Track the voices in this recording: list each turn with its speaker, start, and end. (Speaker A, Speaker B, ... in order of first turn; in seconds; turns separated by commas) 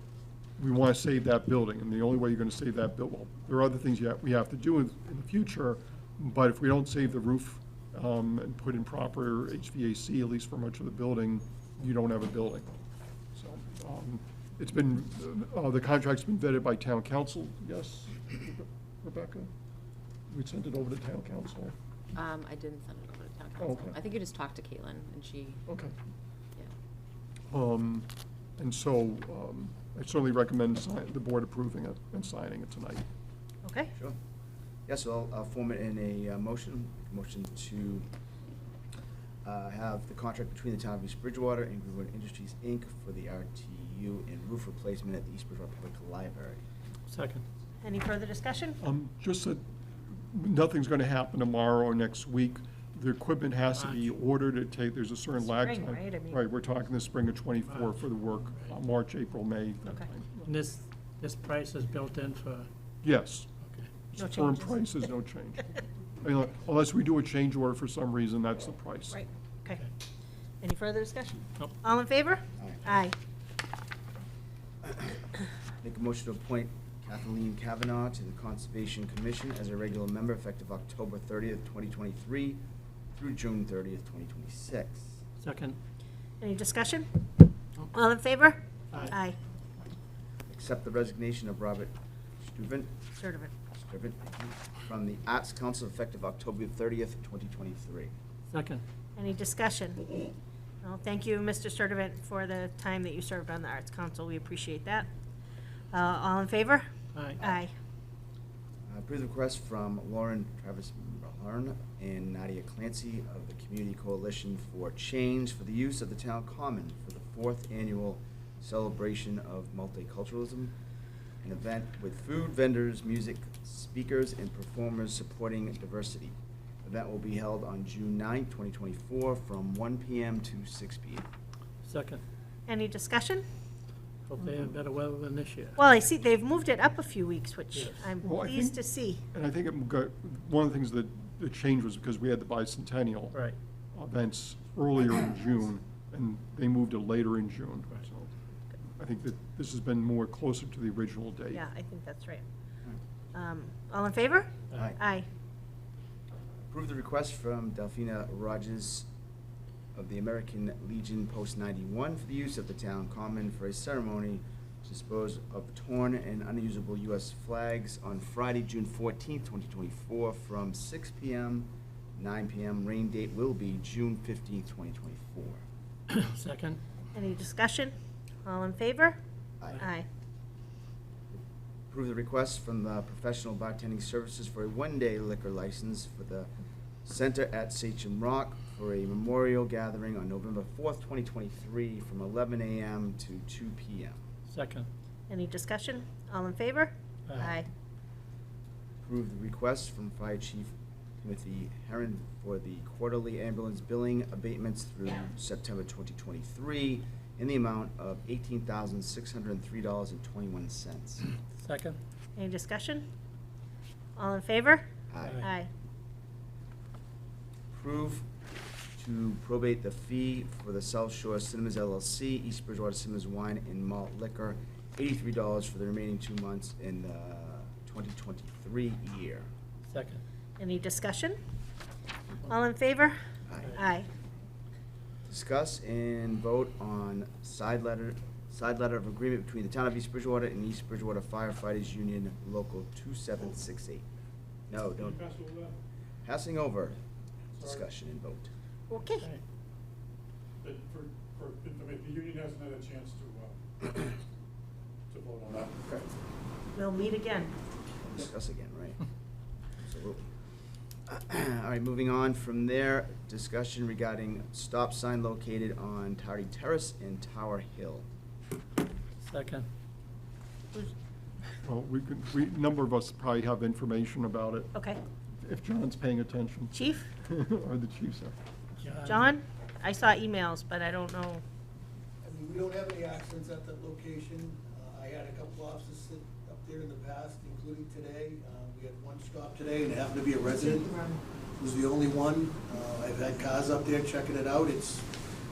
Speaker A: 0.6-12.7, Speaker A: 13.3-19.5, Speaker A: 20.3-21.7, Speaker B: 22.1-25.6, Speaker A: 23.6-24.0, Speaker A: 25.7-25.9, Speaker A: 27.5-33.0, Speaker C: 33.6-33.9, Speaker D: 34.9-38.1, Speaker D: 39.4-46.6, Speaker E: 47.1-47.5, Speaker C: 47.8-48.8, Speaker A: 48.8-60.5, Speaker E: 53.8-54.1, Speaker C: 55.6-56.4, Speaker E: 57.7-58.0, Speaker E: 60.5-62.7, Speaker A: 63.0-63.5, Speaker E: 63.6-63.9, Speaker A: 64.1-69.2, Speaker C: 64.2-64.9, Speaker C: 69.1-69.9, Speaker C: 70.6-73.2, Speaker D: 72.6-72.9, Speaker D: 74.8-75.2, Speaker D: 75.8-82.6, Speaker D: 83.2-85.2, Speaker E: 85.4-85.8, Speaker C: 86.4-87.1, Speaker C: 87.9-89.4, Speaker D: 90.5-92.9, Speaker C: 93.2-93.5, Speaker D: 93.8-98.1, Speaker E: 98.5-98.8, Speaker C: 99.2-100.3, Speaker C: 100.8-105.1, Speaker C: 105.9-106.9, Speaker E: 107.1-107.4, Speaker C: 107.4-107.7, Speaker D: 108.9-120.8, Speaker D: 121.4-131.3, Speaker E: 131.8-132.2, Speaker C: 132.7-133.4, Speaker E: 134.3-135.8, Speaker C: 135.8-139.2, Speaker E: 137.7-138.1, Speaker A: 138.2-143.4, Speaker A: 143.9-148.3, Speaker A: 148.9-151.7, Speaker C: 151.5-152.4, Speaker C: 153.3-155.3, Speaker D: 156.7-159.1, Speaker D: 159.9-175.6, Speaker E: 176.1-176.8, Speaker C: 177.1-177.9, Speaker C: 178.4-179.2, Speaker C: 179.8-180.1, Speaker D: 181.9-186.5, Speaker D: 187.1-194.2, Speaker E: 194.5-194.9, Speaker C: 195.3-197.7, Speaker E: 197.3-197.6, Speaker D: 199.0-211.2, Speaker E: 211.6-212.0, Speaker C: 212.4-213.1, Speaker C: 214.2-214.8, Speaker D: 215.1-215.4, Speaker C: 215.4-215.7, Speaker D: 217.7-218.3, Speaker D: 219.0-229.5, Speaker E: 229.9-230.2, Speaker C: 230.6-231.4, Speaker C: 232.4-233.2, Speaker D: 233.5-233.8, Speaker C: 233.8-234.1, Speaker D: 235.3-244.1, Speaker D: 244.7-245.2, Speaker F: 245.4-245.7, Speaker D: 246.2-247.0, Speaker D: 247.6-248.5, Speaker C: 248.9-249.3, Speaker F: 250.7-251.0, Speaker F: 251.7-253.5, Speaker F: 255.2-255.8, Speaker C: 256.8-257.5, Speaker D: 258.0-259.0, Speaker D: 259.8-260.3, Speaker D: 261.1-268.1, Speaker E: 269.2-269.7, Speaker A: 271.6-274.7, Speaker C: 274.7-275.0, Speaker A: 275.4-278.4, Speaker C: 276.7-277.1, Speaker E: 278.8-279.3, Speaker C: 279.1-281.4, Speaker G: 282.3-290.9, Speaker C: 290.4-291.2, Speaker G: 291.6-295.0